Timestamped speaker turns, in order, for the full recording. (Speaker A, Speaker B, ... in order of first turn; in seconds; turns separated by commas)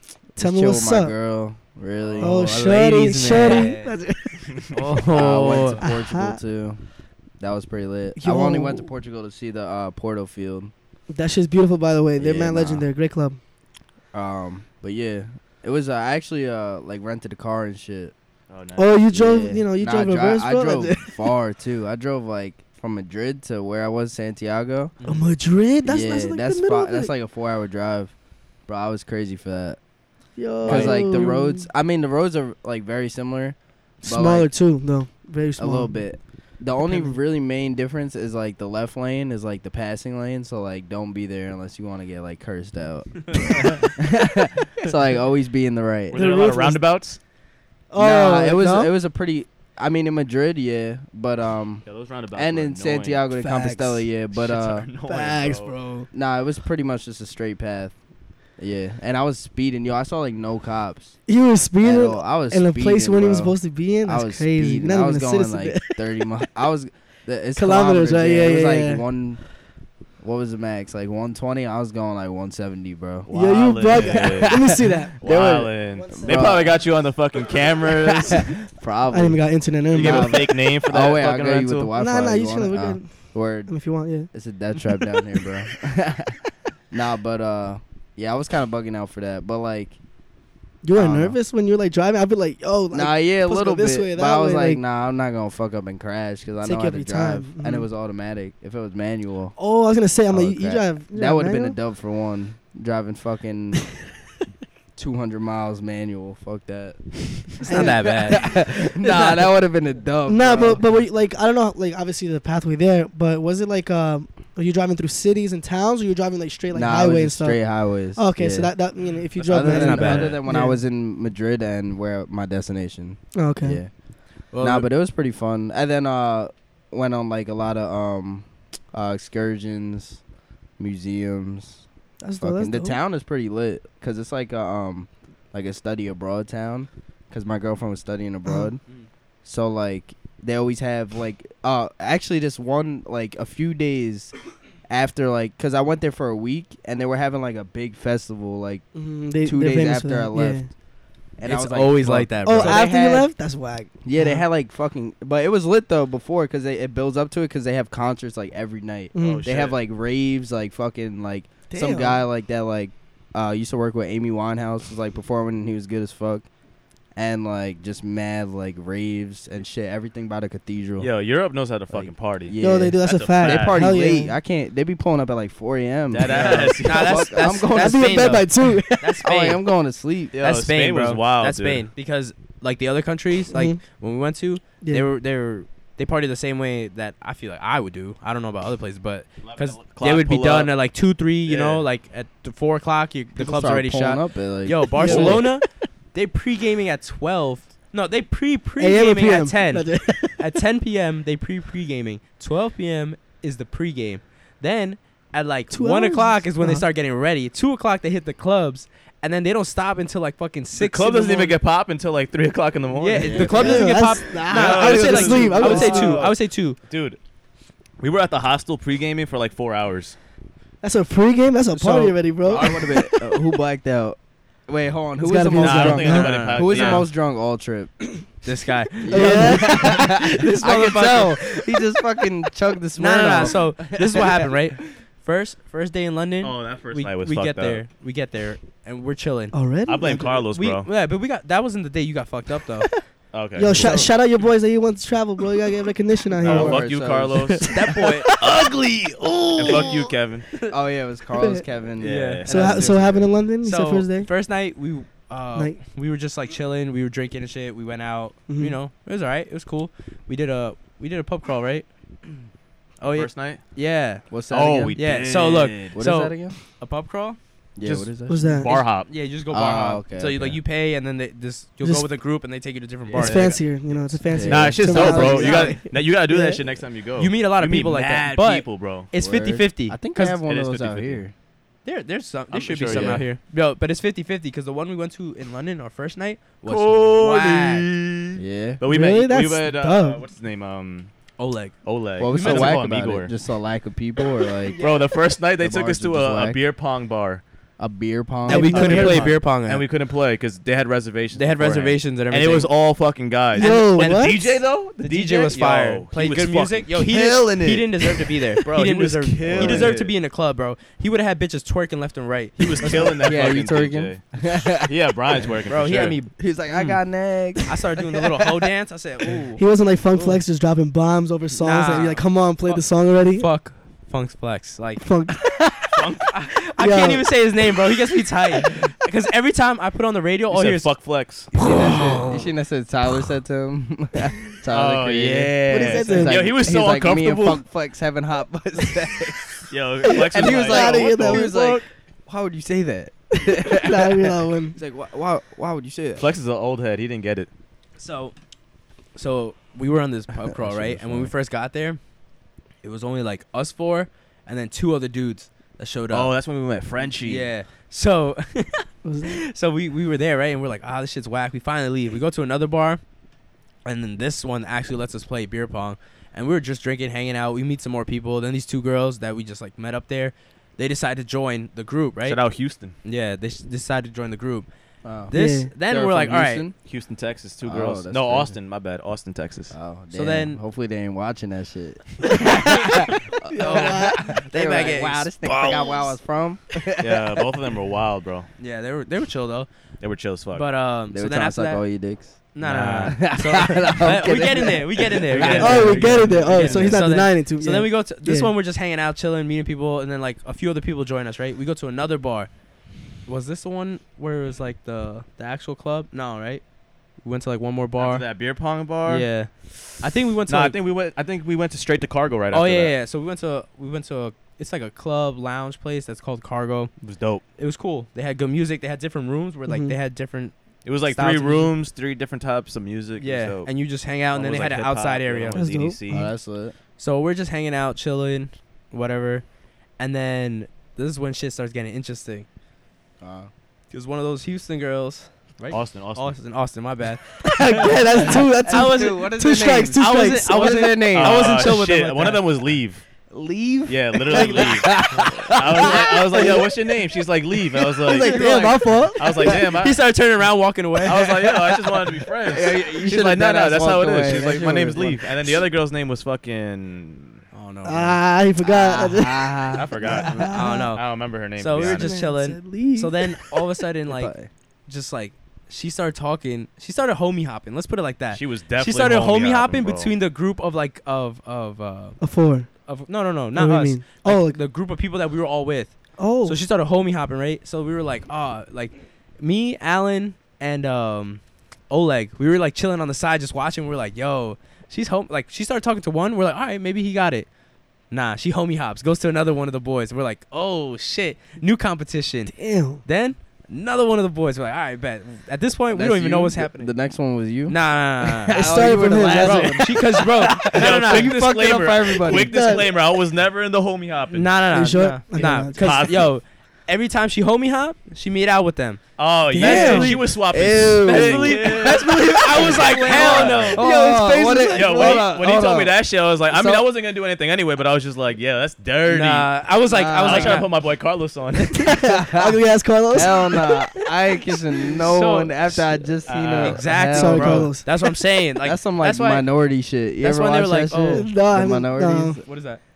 Speaker A: 0.3-1.1, Speaker B: 0.4-2.6, Speaker C: 2.0-2.3, Speaker A: 2.2-4.6, Speaker D: 2.2-3.9, Speaker C: 4.4-4.7, Speaker D: 4.7-5.8, Speaker B: 5.1-6.8, Speaker A: 5.8-6.4, Speaker B: 7.4-10.7, Speaker A: 8.2-8.9, Speaker A: 11.1-13.4, Speaker B: 12.2-12.8, Speaker B: 14.1-18.1, Speaker C: 18.5-18.9, Speaker A: 18.8-21.2, Speaker B: 19.1-24.9, Speaker A: 25.0-27.1, Speaker B: 25.9-28.1, Speaker B: 28.7-29.8, Speaker A: 30.4-31.7, Speaker B: 30.6-34.5, Speaker D: 30.7-31.0, Speaker A: 34.0-36.0, Speaker B: 35.6-46.2, Speaker A: 36.8-37.2, Speaker C: 46.1-47.2, Speaker A: 46.1-46.8, Speaker A: 47.9-48.9, Speaker B: 48.0-54.9, Speaker C: 51.8-53.3, Speaker A: 53.4-54.0, Speaker C: 54.3-55.7, Speaker A: 55.0-56.1, Speaker B: 56.1-58.0, Speaker B: 58.6-61.1, Speaker A: 61.3-66.3, Speaker B: 61.8-69.4, Speaker A: 67.5-69.0, Speaker B: 70.2-73.3, Speaker C: 73.3-78.5, Speaker A: 73.3-76.7, Speaker B: 73.9-74.8, Speaker B: 76.1-76.7, Speaker B: 78.1-83.7, Speaker A: 79.1-80.5, Speaker C: 79.9-81.9, Speaker A: 82.0-83.1, Speaker A: 83.7-84.3, Speaker B: 84.3-86.4, Speaker B: 86.9-90.0, Speaker A: 90.8-94.8, Speaker B: 90.9-91.4, Speaker B: 92.9-99.6, Speaker A: 96.6-97.9, Speaker A: 99.6-101.8, Speaker B: 100.3-103.9, Speaker B: 105.0-110.8, Speaker A: 107.6-108.6, Speaker D: 107.6-109.2, Speaker A: 110.3-117.6, Speaker B: 116.7-118.7, Speaker A: 118.1-120.8, Speaker B: 119.4-123.9, Speaker D: 119.6-120.4, Speaker A: 123.3-123.8, Speaker D: 124.5-124.9, Speaker B: 124.6-130.2, Speaker B: 130.8-131.8, Speaker A: 132.2-133.0, Speaker B: 132.4-138.8, Speaker B: 139.4-144.3, Speaker B: 144.9-148.8, Speaker A: 148.9-150.7, Speaker B: 149.4-150.7, Speaker B: 151.4-153.3, Speaker D: 151.4-152.8, Speaker A: 152.4-154.4, Speaker B: 154.0-166.5, Speaker A: 159.1-159.4, Speaker C: 159.2-159.8, Speaker A: 161.7-162.2, Speaker B: 167.1-171.1, Speaker C: 171.0-173.8, Speaker B: 171.9-178.4, Speaker A: 172.6-174.3, Speaker C: 176.1-177.3, Speaker D: 176.2-179.6, Speaker A: 177.6-179.2, Speaker B: 179.2-180.3, Speaker C: 180.3-181.8, Speaker D: 180.4-211.6, Speaker A: 183.5-183.8, Speaker A: 184.8-185.1, Speaker C: 189.4-190.7, Speaker C: 191.4-191.8, Speaker B: 193.4-195.5, Speaker A: 194.9-195.4, Speaker C: 195.1-195.4, Speaker A: 198.8-200.6, Speaker A: 205.7-206.8, Speaker C: 210.7-216.3, Speaker D: 212.9-216.8, Speaker B: 213.2-214.0, Speaker A: 213.4-216.3, Speaker C: 216.9-217.2, Speaker C: 218.0-220.2, Speaker A: 220.8-223.2, Speaker B: 221.8-224.2, Speaker B: 224.7-227.9, Speaker A: 225.2-226.3, Speaker C: 225.6-227.1, Speaker D: 226.1-227.1, Speaker D: 228.4-231.8, Speaker B: 229.0-234.5, Speaker A: 229.1-230.2, Speaker D: 233.0-242.9, Speaker C: 236.4-237.8, Speaker A: 239.5-240.4, Speaker C: 239.9-240.9, Speaker C: 243.3-244.1, Speaker A: 243.6-246.8, Speaker D: 243.7-244.1, Speaker C: 246.4-247.7, Speaker B: 246.4-247.5, Speaker A: 247.4-248.2, Speaker D: 247.6-250.7, Speaker C: 249.6-250.4, Speaker B: 250.7-252.4, Speaker A: 251.4-251.6, Speaker C: 252.0-253.2, Speaker D: 252.0-261.9, Speaker A: 252.4-254.3, Speaker A: 258.5-258.8, Speaker D: 263.0-264.3, Speaker C: 263.1-263.6, Speaker B: 264.3-264.9, Speaker C: 264.5-265.9, Speaker D: 264.9-267.4, Speaker B: 265.9-266.6, Speaker B: 267.8-268.4, Speaker C: 267.8-269.1, Speaker A: 268.3-268.7, Speaker D: 268.7-273.6, Speaker B: 269.5-270.6, Speaker C: 273.1-273.6, Speaker A: 273.1-276.6, Speaker B: 274.3-275.6, Speaker C: 274.5-279.1, Speaker D: 274.9-275.8, Speaker D: 277.2-280.4, Speaker B: 279.1-281.3, Speaker C: 280.4-281.2, Speaker D: 281.8-287.9, Speaker C: 282.5-283.2, Speaker B: 282.9-283.2, Speaker C: 286.6-291.1, Speaker B: 288.4-288.8, Speaker A: 288.9-290.2, Speaker D: 291.4-291.8, Speaker C: 291.8-293.3, Speaker B: 292.2-294.8, Speaker D: 292.3-292.8, Speaker D: 294.6-295.1, Speaker C: 294.8-297.4, Speaker B: 295.6-296.6, Speaker B: 297.8-299.2, Speaker A: 298.5-299.3, Speaker D: 298.5-299.9, Speaker C: 298.7-310.1, Speaker D: 301.3-302.7, Speaker D: 303.5-304.4, Speaker A: 303.5-304.4, Speaker D: 305.0-313.2, Speaker B: 309.4-309.9, Speaker C: 312.6-316.2, Speaker B: 312.9-314.9, Speaker D: 315.7-317.0, Speaker B: 316.4-318.7, Speaker D: 317.6-320.4, Speaker A: 319.6-323.5, Speaker D: 321.5-322.8, Speaker D: 323.3-325.1, Speaker A: 325.0-325.7, Speaker C: 325.9-326.3, Speaker D: 326.3-330.9, Speaker A: 326.8-327.2, Speaker C: 330.5-332.2, Speaker D: 331.6-332.2, Speaker B: 331.6-346.2, Speaker C: 334.7-337.6, Speaker A: 335.7-336.4, Speaker C: 339.7-341.8, Speaker A: 340.0-341.5, Speaker A: 343.6-344.8, Speaker C: 346.2-347.5, Speaker D: 348.0-348.3, Speaker D: 349.1-352.0, Speaker B: 350.4-351.3, Speaker D: 352.8-356.3, Speaker C: 356.1-357.5, Speaker D: 357.2-363.0, Speaker A: 359.0-359.4, Speaker D: 363.8-372.4, Speaker C: 372.2-372.9, Speaker D: 373.0-374.7, Speaker B: 375.0-376.7, Speaker D: 375.3-376.6, Speaker A: 375.3-375.7, Speaker C: 376.8-379.7, Speaker B: 377.6-378.5, Speaker B: 379.7-387.4, Speaker D: 380.1-380.6, Speaker D: 382.6-386.0, Speaker A: 383.6-384.1, Speaker C: 387.0-388.5, Speaker D: 388.6-389.7, Speaker C: 390.0-390.6, Speaker D: 390.5-391.8, Speaker B: 391.1-392.4, Speaker D: 392.5-402.5, Speaker C: 392.6-393.2, Speaker B: 393.0-396.8, Speaker C: 395.3-396.9, Speaker A: 395.6-398.5, Speaker D: 403.3-406.6, Speaker D: 407.2-408.3, Speaker C: 408.0-409.3, Speaker D: 409.1-410.8, Speaker C: 410.5-412.9, Speaker D: 412.5-416.9, Speaker C: 417.0-417.4, Speaker D: 417.6-420.5, Speaker A: 419.7-419.9, Speaker C: 420.8-423.7, Speaker D: 421.1-421.7, Speaker D: 423.2-425.6, Speaker C: 424.3-426.3, Speaker A: 425.5-426.3, Speaker B: 426.1-426.7, Speaker D: 427.0-429.4, Speaker D: 430.0-432.4, Speaker B: 433.2-433.5, Speaker D: 433.9-439.3, Speaker C: 435.7-436.3, Speaker A: 437.4-440.7, Speaker B: 438.2-441.7, Speaker D: 439.9-442.4, Speaker C: 441.1-443.0, Speaker B: 443.3-446.7, Speaker C: 443.9-448.6, Speaker D: 444.4-444.7, Speaker B: 447.8-448.9, Speaker A: 448.1-449.6, Speaker C: 449.2-450.0, Speaker D: 449.4-451.4, Speaker C: 451.0-457.4, Speaker B: 451.4-455.6, Speaker D: 457.5-458.2, Speaker A: 457.8-460.9, Speaker B: 458.6-460.4, Speaker C: 459.7-462.1, Speaker D: 460.2-461.0, Speaker D: 461.6-464.3, Speaker A: 461.7-463.2, Speaker B: 464.1-464.5, Speaker D: 464.9-472.2, Speaker C: 468.3-470.1, Speaker A: 472.2-472.7, Speaker D: 472.8-487.5, Speaker A: 473.6-474.6, Speaker A: 476.2-476.6, Speaker D: 488.1-496.9, Speaker A: 492.5-493.0, Speaker B: 495.9-502.5, Speaker D: 497.7-498.6, Speaker A: 498.5-500.1, Speaker D: 499.2-501.4, Speaker C: 500.7-504.5, Speaker A: 502.3-502.9, Speaker D: 504.3-509.0, Speaker A: 504.7-506.1, Speaker C: 505.7-506.3, Speaker C: 509.2-513.8, Speaker A: 509.5-510.2, Speaker D: 509.6-510.3, Speaker B: 509.6-516.0, Speaker D: 511.0-513.9, Speaker A: 513.8-515.2, Speaker C: 514.7-519.5, Speaker B: 516.5-516.8, Speaker D: 519.0-520.7, Speaker B: 519.9-520.6, Speaker C: 520.2-522.0, Speaker A: 521.8-524.1, Speaker B: 522.0-522.5, Speaker B: 523.1-527.7, Speaker D: 525.0-525.9, Speaker C: 526.3-526.8, Speaker D: 526.5-529.4, Speaker A: 527.1-528.1, Speaker B: 528.6-532.4, Speaker D: 530.2-531.2, Speaker A: 531.1-532.4, Speaker D: 532.4-532.8